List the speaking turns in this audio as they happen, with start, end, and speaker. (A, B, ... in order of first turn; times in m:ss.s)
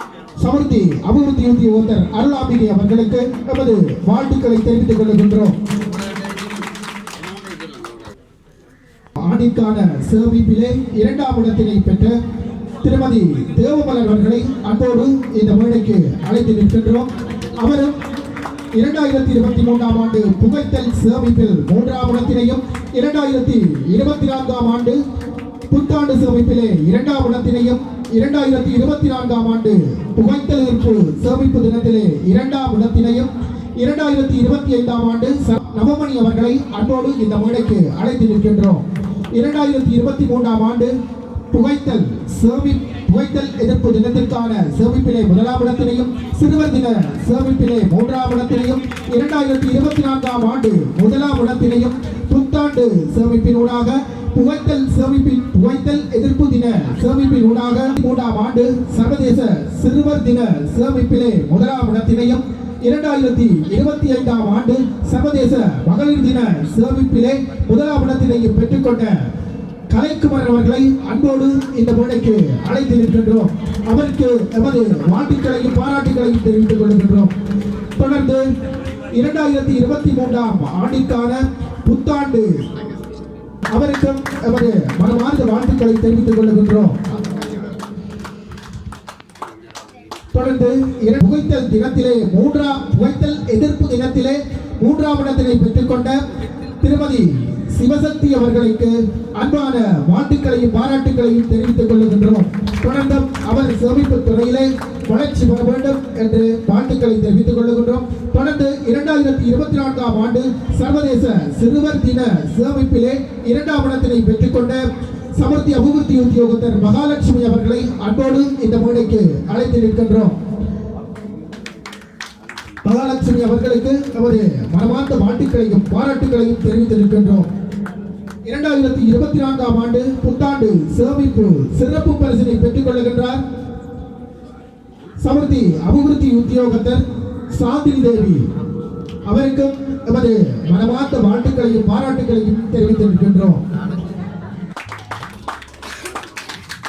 0:00.4-0:05.6 A
0:09.2-0:12.2 A
0:12.8-0:18.0 A
0:18.8-0:25.0 A
0:25.7-0:40.9 A
0:41.5-1:09.1 A
1:09.9-1:17.3 A
1:18.0-1:18.5 A
1:19.1-1:22.5 A
1:23.7-1:27.0 A
1:30.3-1:36.2 A
1:36.8-1:54.8 A
1:55.4-2:00.4 A
2:02.8-2:07.5 A
2:08.5-2:13.4 A
2:15.2-2:18.4 A
2:19.3-2:23.6 A